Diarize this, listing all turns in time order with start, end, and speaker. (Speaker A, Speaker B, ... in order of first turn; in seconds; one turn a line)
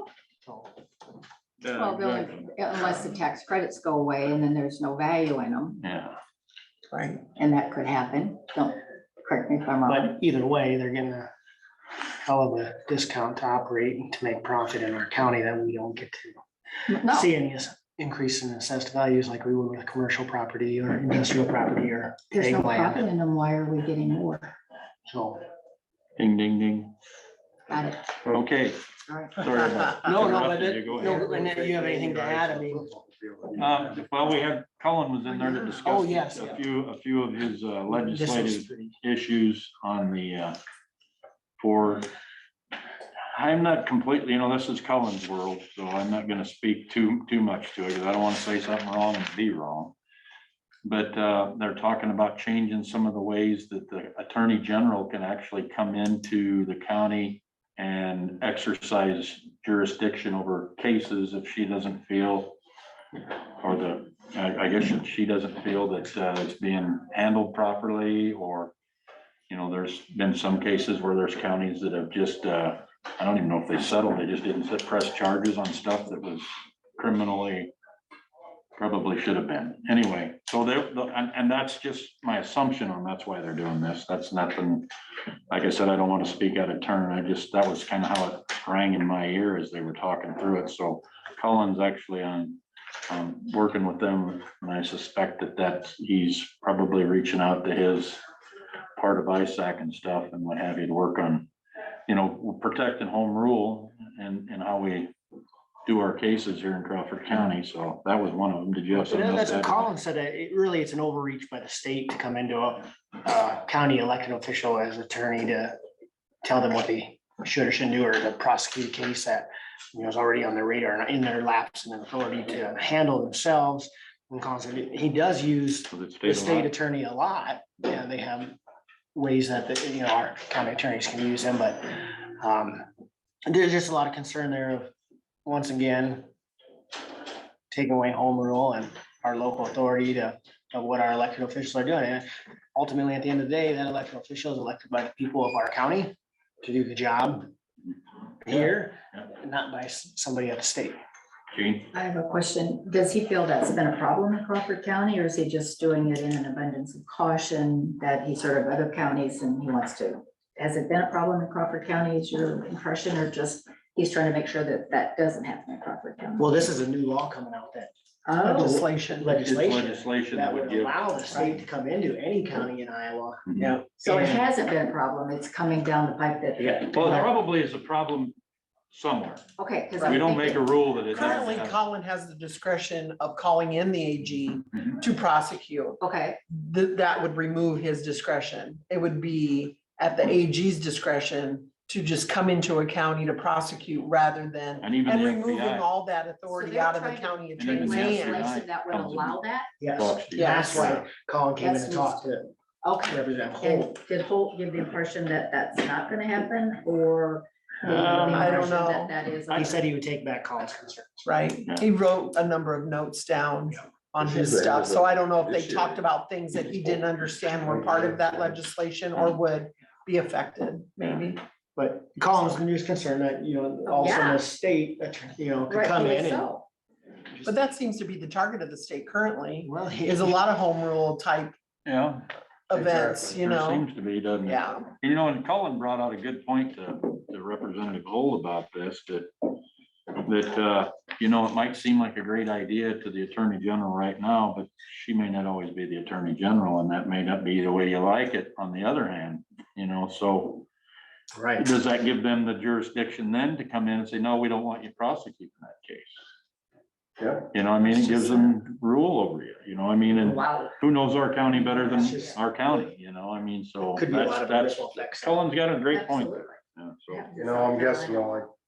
Speaker A: 0.4-0.7
Speaker B: 1.6-3.1
Speaker C: 1.7-5.8
Speaker B: 5.8-6.2
Speaker D: 6.9-7.2
Speaker C: 7.3-10.2
Speaker A: 9.8-11.3
Speaker A: 12.2-16.4
Speaker C: 16.9-17.3
Speaker A: 17.0-23.0
Speaker C: 22.3-24.5
Speaker A: 25.1-25.4
Speaker B: 26.2-26.9
Speaker C: 27.7-28.1
Speaker B: 28.3-28.8
Speaker C: 29.1-29.5
Speaker B: 29.4-31.2
Speaker A: 30.0-32.9
Speaker E: 31.1-34.0
Speaker B: 33.5-40.6
Speaker A: 35.8-36.6
Speaker A: 37.9-38.9
Speaker B: 41.6-42.1
Speaker B: 43.3-50.0
Speaker B: 50.8-62.6
Speaker B: 63.6-68.7
Speaker B: 69.5-77.7
Speaker B: 78.8-84.9
Speaker B: 85.5-98.2
Speaker B: 99.0-101.5
Speaker B: 102.1-105.1
Speaker B: 105.8-109.9
Speaker A: 108.9-115.8
Speaker A: 116.4-128.6
Speaker B: 125.9-126.7
Speaker A: 129.1-132.9
Speaker A: 133.4-134.9
Speaker A: 135.4-136.3
Speaker A: 137.7-147.5
Speaker A: 148.4-151.0
Speaker B: 148.5-149.2
Speaker B: 151.5-151.9
Speaker C: 151.9-166.7
Speaker A: 166.4-167.9
Speaker C: 168.2-168.8
Speaker D: 168.4-169.3
Speaker A: 168.6-174.5
Speaker B: 169.3-171.5
Speaker C: 171.3-171.6
Speaker C: 174.0-177.3
Speaker A: 176.6-177.2
Speaker B: 176.6-178.3
Speaker B: 178.9-179.4
Speaker C: 179.6-180.6
Speaker D: 180.0-180.3
Speaker B: 180.0-181.8
Speaker D: 181.1-186.0
Speaker C: 186.0-186.4
Speaker D: 186.5-198.5
Speaker B: 194.8-195.9
Speaker C: 196.5-199.7
Speaker B: 197.6-199.4
Speaker A: 199.8-203.9
Speaker B: 199.9-201.0
Speaker D: 200.3-201.0
Speaker C: 201.6-202.2
Speaker C: 202.8-209.8
Speaker B: 207.9-208.4
Speaker A: 207.9-208.6
Speaker D: 208.3-209.1
Speaker A: 209.5-211.2
Speaker D: 211.2-221.4
Speaker E: 214.2-216.0
Speaker E: 217.6-218.6
Speaker A: 221.8-226.5
Speaker C: 223.8-224.4
Speaker C: 225.7-226.7
Speaker D: 227.4-231.5
Speaker A: 229.6-230.4
Speaker B: 231.8-232.2
Speaker D: 232.7-233.8
Speaker E: 232.8-233.3
Speaker B: 233.4-239.5
Speaker D: 234.4-234.9
Speaker B: 240.1-250.7
Speaker A: 251.3-251.7
Speaker B: 251.6-256.2
Speaker E: 257.2-257.5
Speaker B: 257.5-267.3
Speaker C: 260.2-260.7
Speaker A: 261.9-262.4
Speaker C: 262.0-262.4
Speaker A: 263.8-265.4
Speaker C: 265.9-266.6
Speaker C: 267.1-268.4
Speaker E: 267.4-268.5